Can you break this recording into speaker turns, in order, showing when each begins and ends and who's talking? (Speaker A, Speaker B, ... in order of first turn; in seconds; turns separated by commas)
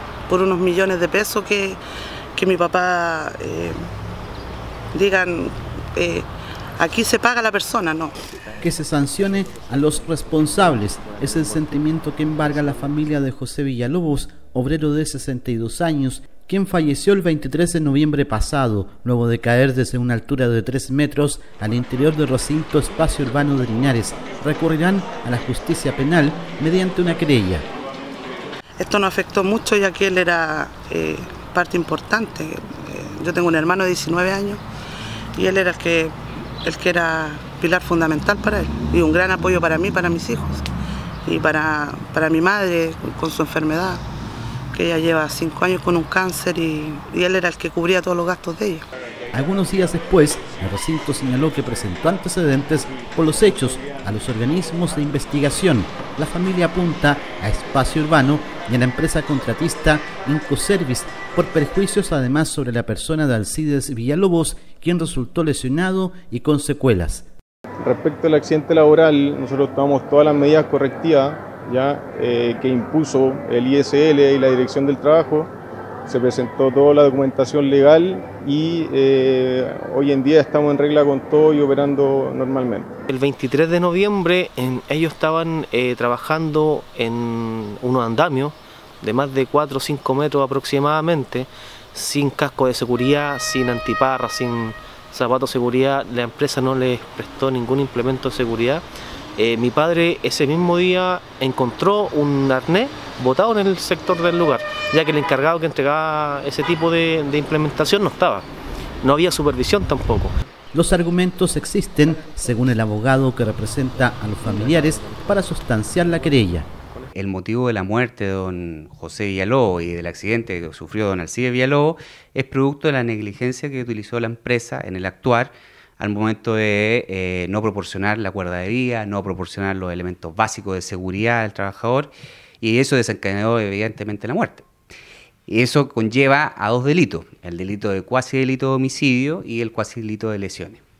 Speaker A: 0.3-1.8, Speaker A: 2.3-3.8, Speaker A: 4.9-6.3, Speaker A: 6.8-8.1, Speaker B: 8.6-27.6, Speaker A: 28.8-34.6, Speaker A: 35.4-40.6, Speaker A: 41.2-44.0, Speaker A: 44.7-48.8, Speaker B: 49.3-67.3, Speaker C: 67.8-75.5, Speaker C: 76.1-82.9, Speaker D: 83.1-98.8, Speaker D: 99.4-108.5, Speaker D: 109.0-110.3, Speaker B: 110.7-116.7, Speaker E: 117.1-134.6, Speaker E: 135.5-140.8